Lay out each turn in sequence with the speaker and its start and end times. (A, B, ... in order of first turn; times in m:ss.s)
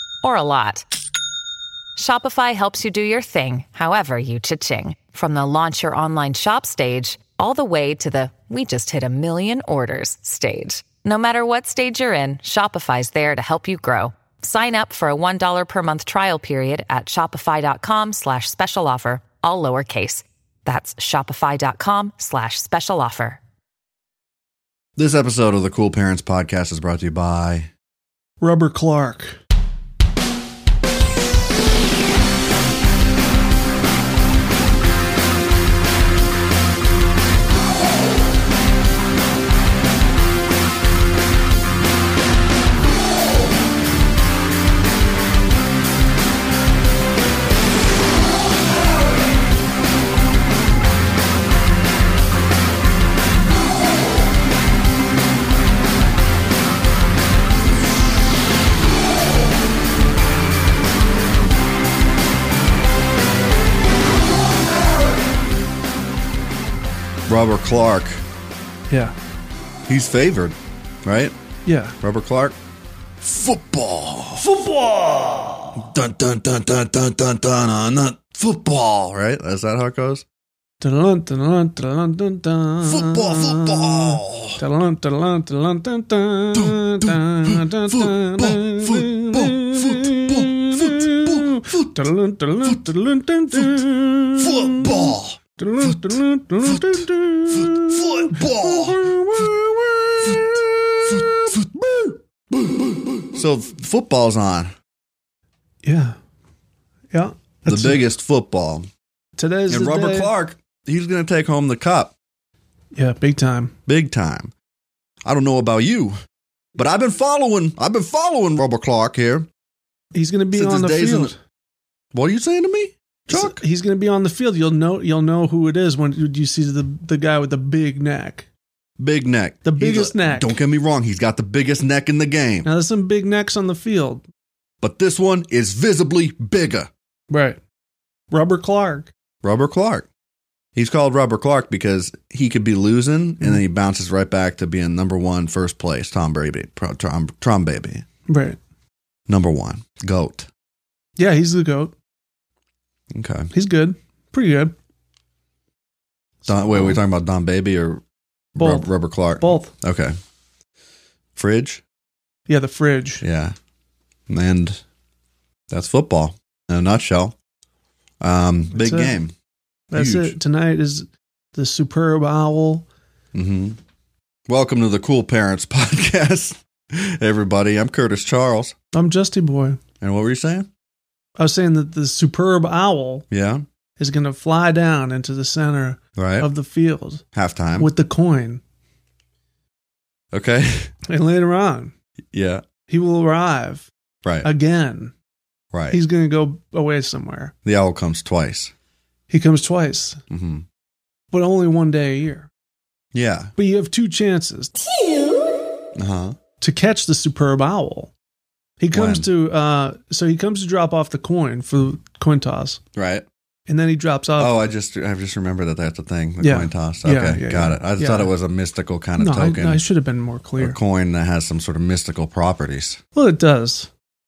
0:00.2-0:00.9 A
0:02.0-0:23.4 A
0:25.0-0:27.7 B
0:28.4-0:29.4 C
1:07.3-1:08.2 B
1:08.9-1:09.1 C
1:09.9-1:11.3 B
1:11.6-1:12.0 C
1:12.0-1:12.6 B
1:13.2-1:14.4 B
1:14.4-1:15.8 C
1:15.8-1:20.2 B
1:20.8-1:41.6 C
1:22.8-1:24.6 B
1:26.5-1:32.0 B
1:33.5-1:33.8 B
1:34.4-1:39.5 B
1:40.2-1:44.7 B
1:45.8-1:46.2 C
1:47.1-1:48.0 C
1:47.6-1:48.9 B
1:49.4-1:50.3 C
1:49.7-1:52.1 B
1:52.9-1:53.7 C
1:53.9-1:54.5 B
1:55.2-1:56.2 B
1:56.8-1:59.5 B
2:00.1-2:01.4 C
2:00.5-2:01.3 B
2:02.1-2:03.6 B
2:03.3-2:08.5 C
2:09.0-2:12.7 B
2:09.6-2:10.6 C
2:12.6-2:14.2 C
2:14.8-2:16.9 B
2:17.3-2:17.6 C
2:18.3-2:19.1 C
2:19.4-2:20.1 B
2:20.7-2:28.0 B
2:28.3-2:28.6 C
2:29.3-2:30.5 B
2:31.2-2:31.9 C
2:33.1-2:33.5 B
2:33.5-2:34.7 C
2:36.4-2:37.0 C
2:36.5-2:38.0 B
2:38.5-2:40.2 B
2:38.6-2:39.7 C
2:41.4-2:41.8 B
2:42.5-2:43.2 C
2:43.2-2:43.5 B
2:44.3-2:44.8 B
2:45.7-2:47.3 B
2:48.2-2:49.3 B
2:48.7-2:49.1 C
2:49.9-2:50.3 B
2:49.9-2:52.8 C
2:53.3-2:53.8 B
2:54.5-2:58.7 B
2:58.9-2:59.8 C
3:00.0-3:00.7 B
3:01.4-3:03.2 C
3:03.3-3:03.6 B
3:04.0-3:07.2 C
3:06.2-3:06.5 B
3:07.3-3:07.9 B
3:07.8-3:08.6 C
3:10.3-3:10.9 B
3:11.1-3:11.9 C
3:12.3-3:12.6 B
3:12.9-3:13.9 C
3:14.4-3:15.1 C
3:15.7-3:16.0 B
3:15.9-3:17.5 C
3:17.6-3:18.7 B
3:19.3-3:20.2 C
3:20.3-3:20.6 B
3:21.3-3:22.5 C
3:23.1-3:23.5 B
3:23.6-3:25.2 C
3:26.0-3:26.4 B
3:26.6-3:28.1 C
3:28.8-3:32.8 C
3:28.9-3:29.3 B
3:32.9-3:33.2 B
3:33.7-3:34.6 C
3:34.4-3:39.8 B
3:36.4-3:38.3 C
3:39.2-3:40.8 C
3:40.6-3:43.0 B
3:43.1-3:43.9 C